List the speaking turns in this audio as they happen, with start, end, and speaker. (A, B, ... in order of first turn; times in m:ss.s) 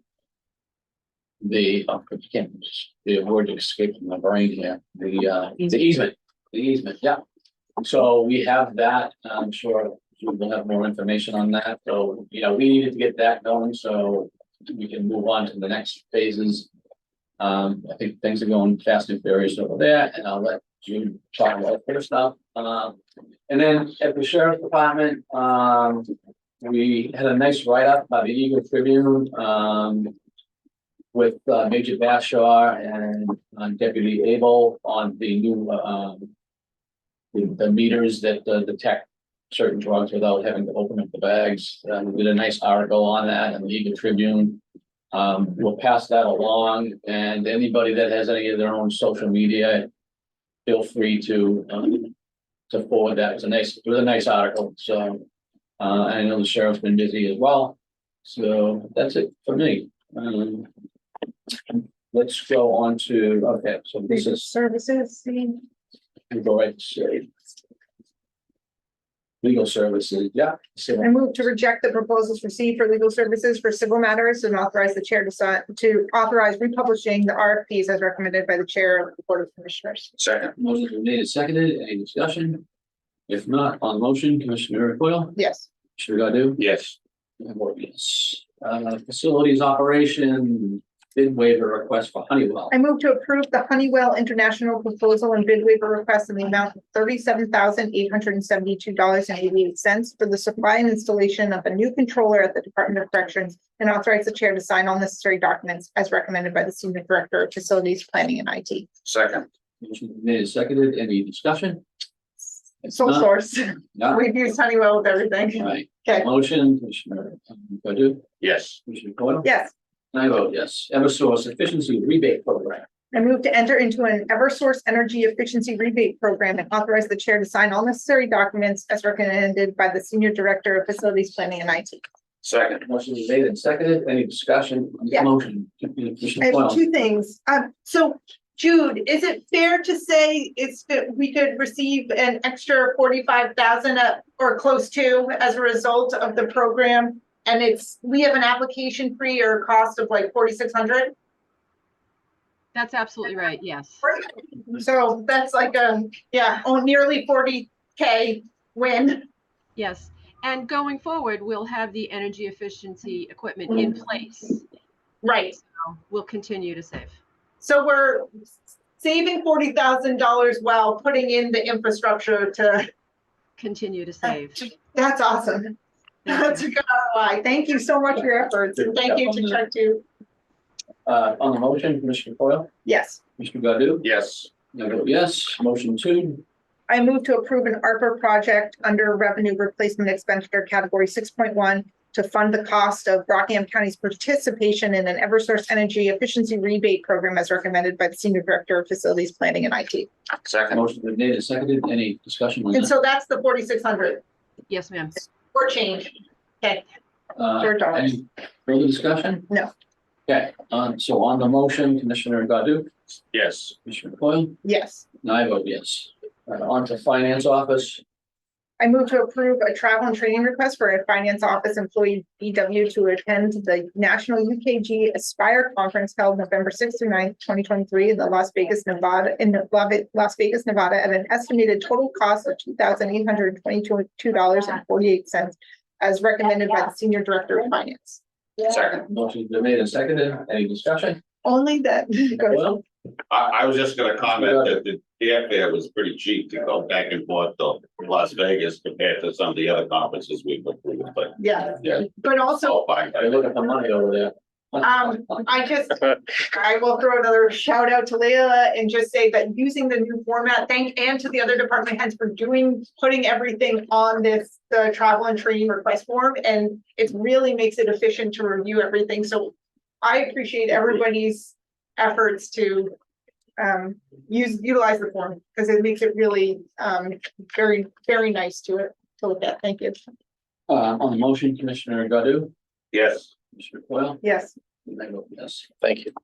0:01.4-0:07.2 A
0:07.8-0:16.7 A
0:17.4-0:30.1 A
0:31.1-0:36.3 A
0:37.3-0:44.6 A
0:45.1-0:49.9 A
0:50.6-0:52.1 A
0:52.7-0:55.2 A
0:55.8-1:00.7 A
1:01.7-1:04.5 A
1:04.1-1:05.6 B
1:06.3-1:07.3 A
1:09.4-1:11.4 A
1:11.0-1:20.1 B
1:20.2-1:20.5 C
1:20.6-1:22.6 A
1:23.3-1:25.4 A
1:25.4-1:25.7 B
1:26.0-1:26.6 A
1:26.6-1:27.0 C
1:27.4-1:32.7 A
1:32.7-1:48.9 B
1:49.0-1:49.4 C
1:49.8-1:51.8 A
1:52.8-1:53.3 A
1:52.8-1:56.3 B
1:53.9-1:54.2 A
1:55.6-1:58.2 A
1:58.4-1:58.8 C
1:58.8-1:59.5 A
1:59.4-1:59.7 B
2:00.1-2:02.8 A
2:03.1-2:12.0 B
2:12.4-2:12.8 C
2:12.6-2:16.8 A
2:16.4-2:31.1 B
2:32.7-2:34.0 D
2:34.0-2:39.2 B
2:39.8-2:44.6 D
2:45.2-2:45.6 B
2:45.7-2:47.2 D
2:47.6-2:48.3 B
2:49.0-2:52.9 B
2:53.6-2:54.6 D
2:54.2-3:00.0 B
2:56.2-2:56.6 D
2:58.8-2:59.6 A
3:01.0-3:02.7 A
3:02.8-3:03.2 B
3:03.4-3:04.0 A
3:04.0-3:04.5 C
3:04.6-3:06.4 A
3:06.9-3:20.1 B
3:20.4-3:20.7 C
3:20.7-3:22.9 A
3:22.7-3:24.2 B
3:24.7-3:25.3 D
3:25.5-3:26.8 B
3:27.4-3:29.5 A
3:27.6-3:28.2 B
3:30.3-3:32.9 A
3:33.3-3:33.7 C
3:33.8-3:34.6 A
3:34.6-3:35.0 B
3:35.2-3:38.0 A
3:38.8-3:58.2 B
3:58.7-3:59.0 C
3:59.1-4:01.2 A
4:01.4-4:02.8 B
4:02.4-4:02.8 A
4:03.3-4:12.0 C
4:04.2-4:04.8 A
4:11.4-4:12.8 B
4:12.6-4:13.4 C
4:13.2-4:15.4 A
4:14.8-4:32.9 B
4:33.6-4:40.0 B
4:40.7-4:42.5 A
4:42.9-4:43.3 C
4:43.5-4:44.2 A
4:44.2-4:44.5 B
4:44.8-4:46.0 A